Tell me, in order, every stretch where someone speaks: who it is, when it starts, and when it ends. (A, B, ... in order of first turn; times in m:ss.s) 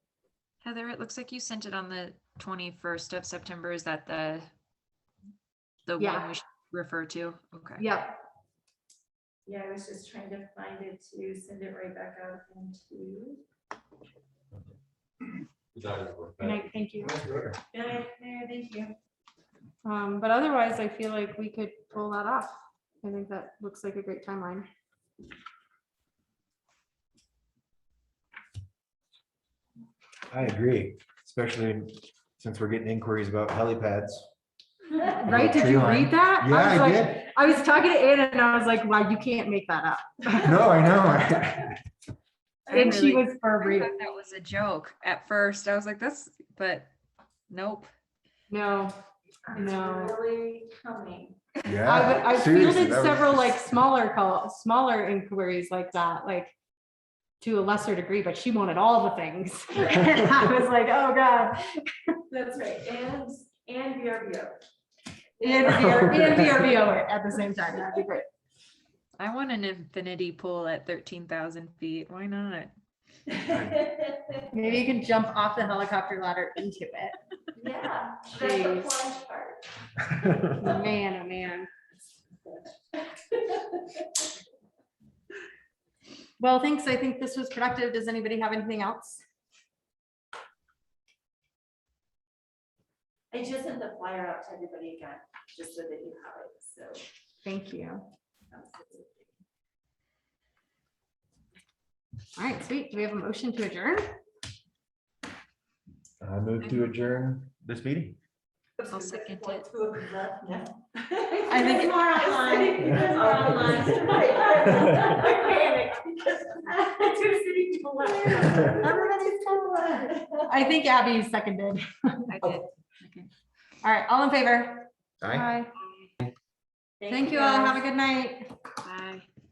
0:00.6-0:04.5 A
0:05.8-0:07.8 A
0:06.0-0:06.3 B
0:07.8-0:08.1 B
0:09.4-0:13.4 C
0:15.7-0:17.6 D
0:16.4-0:17.1 B
0:17.7-0:18.9 C
0:19.8-0:24.7 B
0:30.3-0:34.3 D
0:35.0-0:40.6 B
0:35.2-0:37.2 D
0:40.4-0:41.7 D
0:42.7-0:43.0 C
0:42.7-0:46.9 A
0:42.7-0:43.9 B
0:47.5-0:47.9 A
0:48.5-0:48.9 B
0:49.5-0:51.4 C
0:49.5-0:50.2 B
0:51.6-0:53.4 D
0:51.8-0:56.5 B
0:57.4-1:01.8 B
1:02.3-1:04.6 C
1:05.4-1:06.6 C
1:05.4-1:08.2 B
1:09.2-1:12.7 A
1:13.3-1:14.4 C
1:14.5-1:17.1 B
1:17.5-1:19.6 C
1:18.3-1:18.9 B
1:20.5-1:21.7 B
1:22.9-1:24.0 C
1:26.4-1:29.2 B
1:33.3-1:37.0 C
1:37.4-1:38.0 B
1:38.5-1:39.3 C
1:42.4-1:44.0 B
1:46.2-1:48.2 D
1:46.6-1:46.9 A
1:48.8-2:00.5 C
1:48.9-1:49.6 A
1:51.5-1:55.5 B
1:58.2-2:02.3 B
2:02.3-2:03.3 A
2:03.8-2:05.7 B
2:05.2-2:05.5 D
2:07.0-2:07.8 C
2:07.1-2:08.5 B
2:08.8-2:09.2 A